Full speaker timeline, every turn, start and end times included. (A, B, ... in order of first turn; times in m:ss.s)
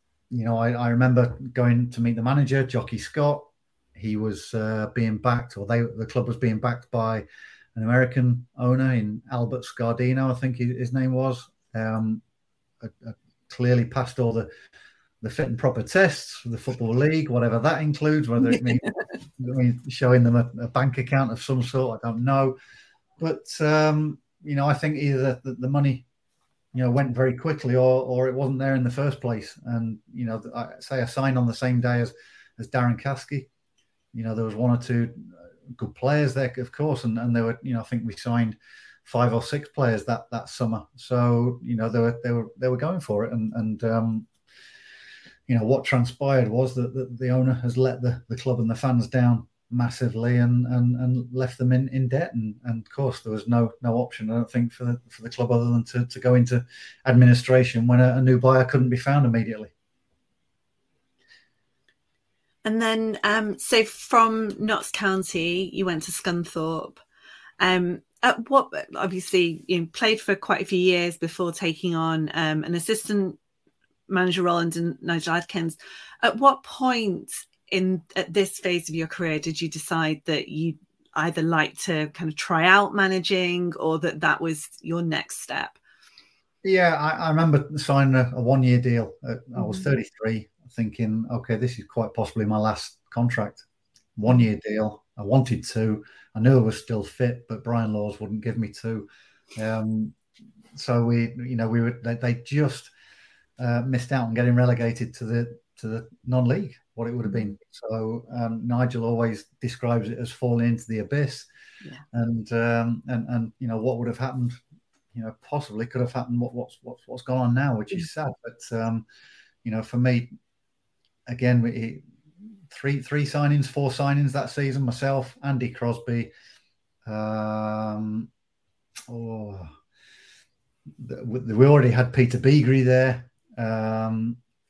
0:00.3-0:12.2 A
0:12.8-0:14.5 A
0:15.2-0:22.6 A
0:18.4-0:18.8 B
0:23.2-0:26.0 A
0:26.7-0:33.5 A
0:34.1-0:44.3 A
0:45.5-0:59.7 A
1:02.6-1:07.0 B
1:07.6-1:13.4 B
1:14.1-1:25.8 B
1:26.6-1:33.6 A
1:29.6-1:29.9 B
1:34.2-1:40.2 A
1:40.7-1:42.9 A
1:43.6-1:51.5 A
1:47.3-1:47.5 B
1:52.1-1:54.6 A
1:55.1-1:59.0 A
1:59.6-2:00.3 A
2:01.3-2:02.0 A
2:02.7-2:06.3 A
2:07.0-2:08.3 A
2:09.1-2:09.7 A
2:11.0-2:14.4 A